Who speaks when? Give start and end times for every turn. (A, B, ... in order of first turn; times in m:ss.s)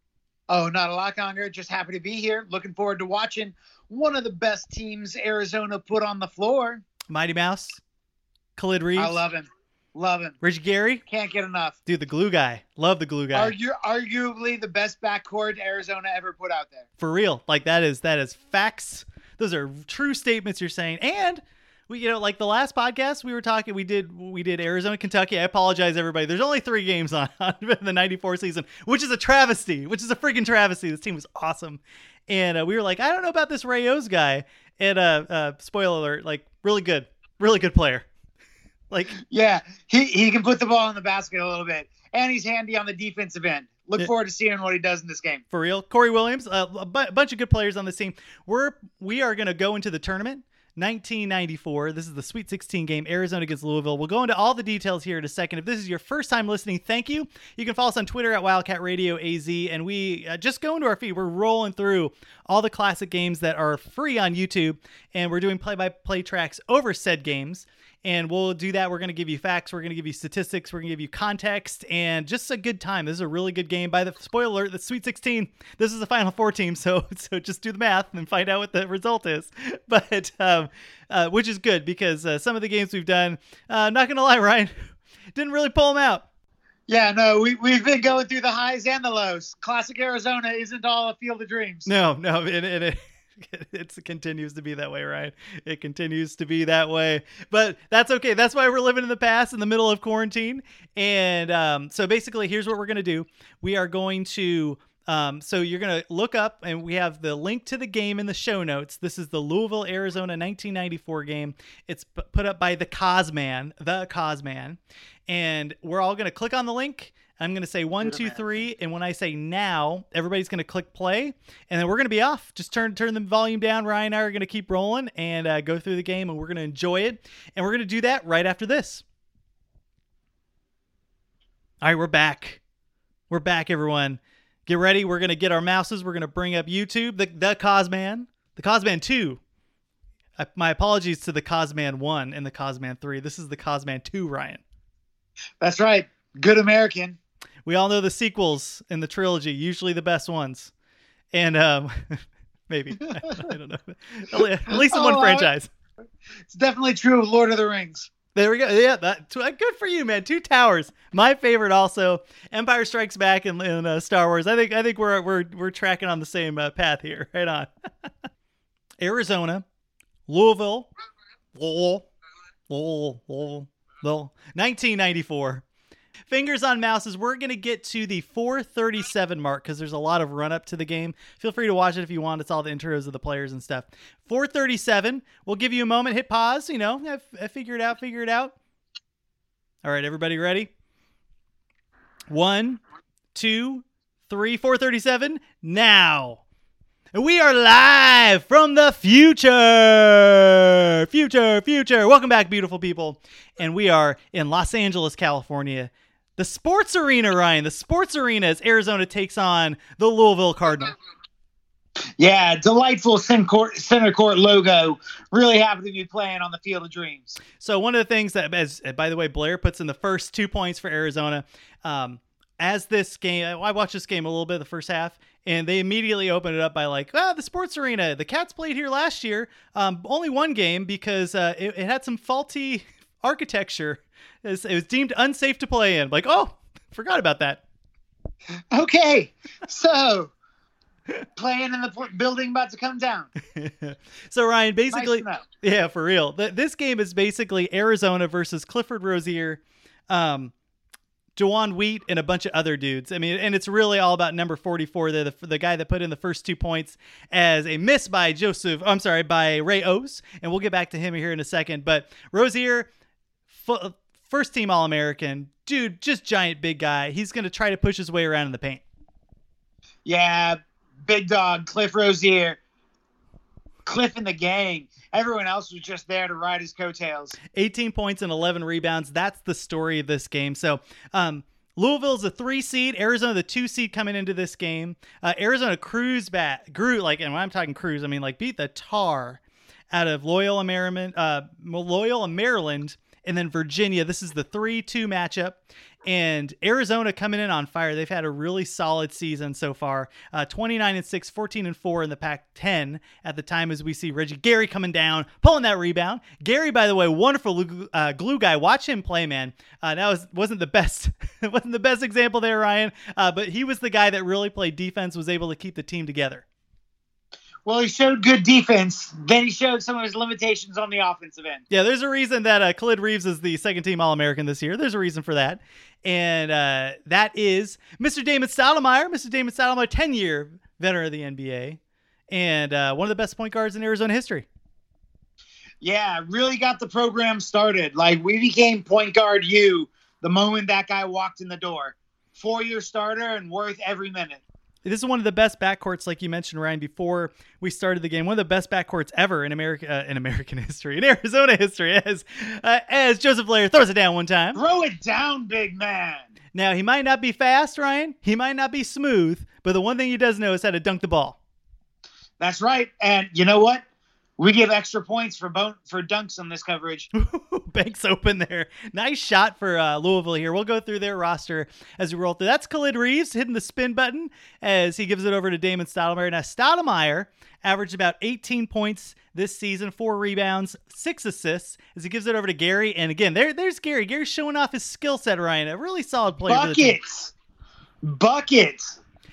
0:00.5-0:06.8 A
0:07.1-0:07.8 B
0:08.6-0:09.2 B
0:09.0-0:10.4 A
0:10.4-0:11.0 B
0:11.1-0:11.8 A
0:11.9-0:13.6 B
0:13.3-0:16.9 A
0:17.0-0:38.1 B
0:38.9-0:39.2 B
0:39.2-0:45.4 A
0:45.5-1:24.7 B
1:25.4-1:26.2 B
1:26.9-1:31.9 A
1:31.9-2:09.0 B
1:58.0-1:58.4 A
2:11.8-2:12.6 B
2:13.3-2:19.4 B
2:20.4-2:24.6 B
2:25.6-2:27.2 A
2:27.6-2:30.7 B
2:31.3-2:35.7 B
2:34.7-2:35.5 A
2:36.5-2:38.1 A
2:38.4-2:47.7 B
2:49.0-2:49.6 B
2:50.3-2:50.9 B
2:51.5-2:52.1 B
2:52.7-2:55.6 B
2:56.3-3:08.6 B
3:09.8-3:10.7 B
3:12.3-3:12.8 B
3:13.3-3:16.4 B
3:17.1-3:31.0 B
3:32.2-3:37.4 A
3:37.6-3:57.6 B
3:58.7-4:00.3 A
4:01.4-4:03.3 A
4:03.6-4:10.5 B
4:04.9-4:05.4 A
4:11.4-4:22.9 B
4:23.5-4:28.8 B
4:30.0-4:32.6 A
4:33.8-4:37.4 A
4:37.5-4:49.4 B
4:49.9-5:16.4 B
5:17.6-5:21.6 A
5:21.7-5:31.8 B
5:32.3-5:34.5 B
5:35.8-5:44.4 A
5:44.8-5:54.6 B
5:54.6-5:56.3 A
5:56.6-6:01.4 B
6:02.4-6:03.8 A
6:04.4-6:07.1 A
6:07.1-6:27.0 B
6:26.5-6:27.3 A
6:28.0-6:29.0 A